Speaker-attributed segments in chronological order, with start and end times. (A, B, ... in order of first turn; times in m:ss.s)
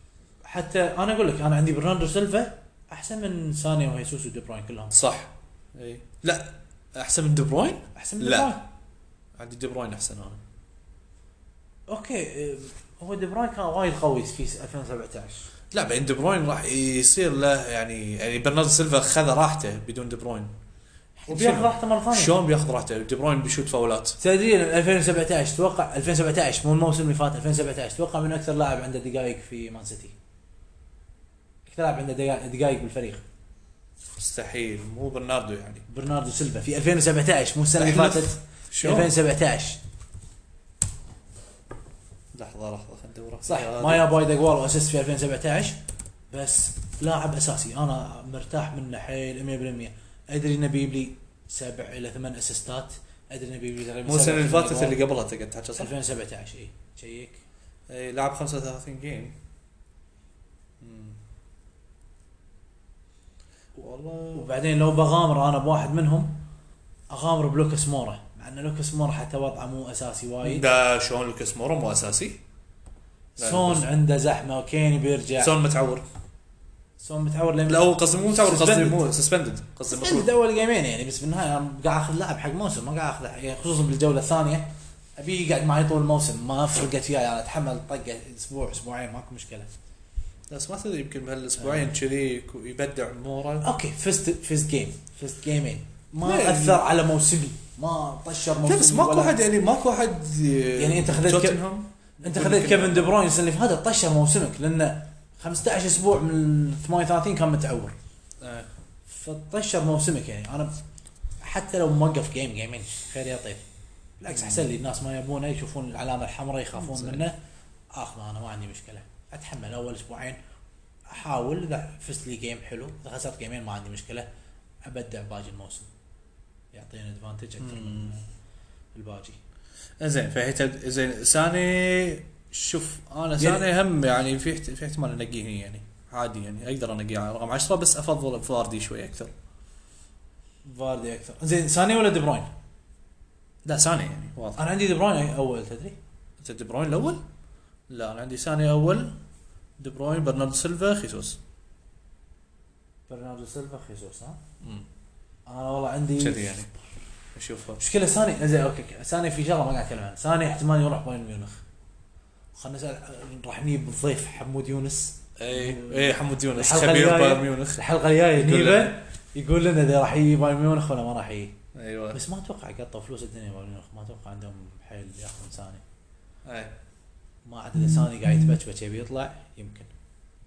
0:00.4-0:05.0 A
0:04.9-0:08.6 B
0:08.0-0:08.6 A
0:09.4-0:10.4 B
0:11.9-0:15.5 A
0:15.7-0:20.5 B
0:21.2-0:22.4 A
0:21.3-0:24.2 B
0:24.2-0:30.1 A
0:31.7-0:33.2 A
0:34.2-0:35.9 B
0:35.9-0:39.8 A
0:37.8-0:39.1 B
0:42.3-0:44.1 B
0:43.5-0:45.8 A
0:46.3-0:55.0 A
0:54.0-0:55.9 B
0:55.8-0:57.4 A
0:57.9-0:59.4 B
1:00.8-1:01.2 B
1:03.8-1:04.5 B
1:04.4-1:06.4 A
1:07.1-1:10.6 A
1:10.4-1:12.4 B
1:13.4-1:15.5 A
1:13.4-1:13.9 B
1:15.4-1:16.0 B
1:17.0-1:19.0 A
1:17.7-1:20.3 B
1:19.9-1:29.7 A
1:30.5-1:33.7 B
1:31.6-1:31.9 A
1:33.6-1:39.4 A
1:36.2-1:36.9 B
1:38.6-1:43.2 B
1:40.8-1:41.6 A
1:42.2-1:48.0 A
1:48.4-1:48.7 B
1:49.1-1:50.7 A
1:51.4-1:53.6 A
1:54.2-1:57.4 A
1:54.3-1:54.7 B
1:56.7-1:57.3 B
1:57.9-2:00.4 A
2:01.1-2:04.3 A
2:04.8-2:05.9 A
2:06.7-2:08.3 A
2:07.6-2:08.2 B
2:09.0-2:09.4 A
2:10.0-2:19.3 B
2:13.4-2:13.7 A
2:20.6-2:22.5 A
2:23.6-2:24.6 B
2:24.6-2:26.0 A
2:26.4-2:27.2 B
2:27.9-2:29.2 B
2:29.8-2:31.4 B
2:33.1-2:34.4 A
2:34.6-2:34.9 B
2:35.5-2:36.5 A
2:36.2-2:36.7 B
2:37.4-2:37.8 B
2:37.8-2:41.6 A
2:42.6-2:51.6 A
2:45.4-2:47.8 B
2:48.3-2:49.0 B
2:51.7-2:52.2 B
2:52.1-2:55.8 A
2:56.4-2:56.7 B
2:57.4-2:59.9 A